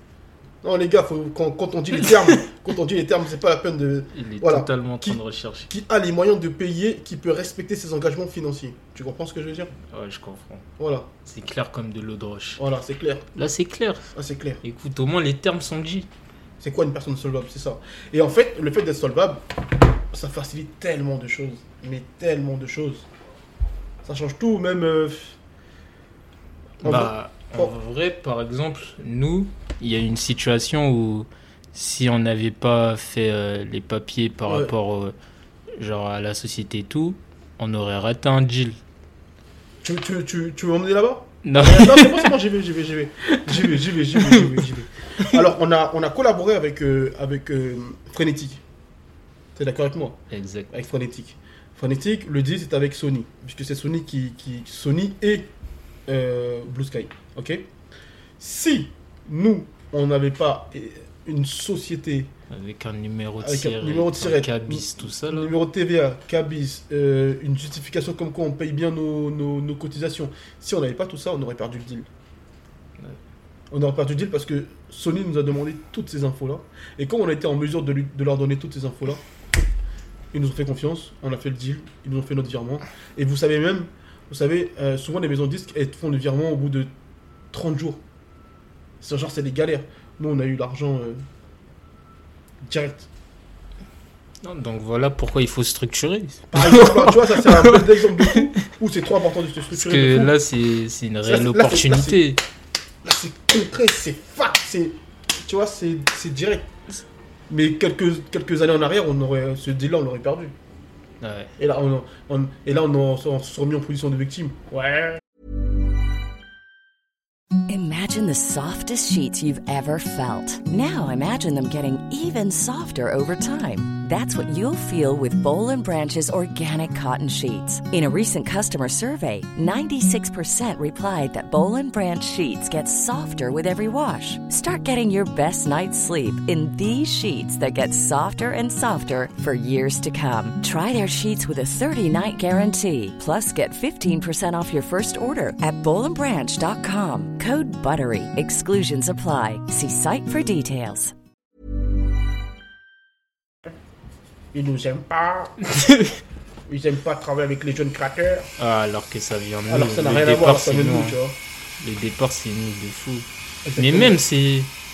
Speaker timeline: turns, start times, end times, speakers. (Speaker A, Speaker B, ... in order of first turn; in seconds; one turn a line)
Speaker A: 0.6-9.7
Speaker B: 4.1-5.7
Speaker B: 9.9-10.7
Speaker A: 10.8-11.1
Speaker B: 11.2-12.6
Speaker A: 12.6-13.2
Speaker B: 13.3-14.0
Speaker A: 14.1-14.6
Speaker B: 14.6-16.1
Speaker A: 16.6-19.4
Speaker A: 20.1-23.1
Speaker A: 24.0-25.4
Speaker B: 26.8-35.1
Speaker A: 26.8-27.7
Speaker A: 34.5-34.7
Speaker B: 35.8-38.8
Speaker A: 39.8-48.6
Speaker B: 41.4-42.3
Speaker B: 43.5-44.2
Speaker A: 49.5-50.2
Speaker B: 50.3-50.7
Speaker A: 50.7-55.5
Speaker A: 56.1-57.6
Speaker A: 58.4-62.3
Speaker B: 62.5-65.5
Speaker A: 63.4-72.1
Speaker A: 73.7-79.2
Speaker A: 80.3-86.9
Speaker A: 87.5-88.0
Speaker A: 89.0-91.2
Speaker A: 92.7-93.1
Speaker B: 94.4-98.5
Speaker A: 96.5-100.3
Speaker B: 99.7-102.4
Speaker A: 101.2-102.2
Speaker A: 103.0-106.7
Speaker A: 107.5-110.5
Speaker B: 111.2-111.5
Speaker A: 111.6-114.8
Speaker C: 117.7-151.1
Speaker A: 154.5-155.6
Speaker A: 156.7-158.5
Speaker B: 158.6-161.2
Speaker A: 159.7-161.3
Speaker B: 161.8-163.3
Speaker A: 163.7-164.2
Speaker B: 163.8-164.7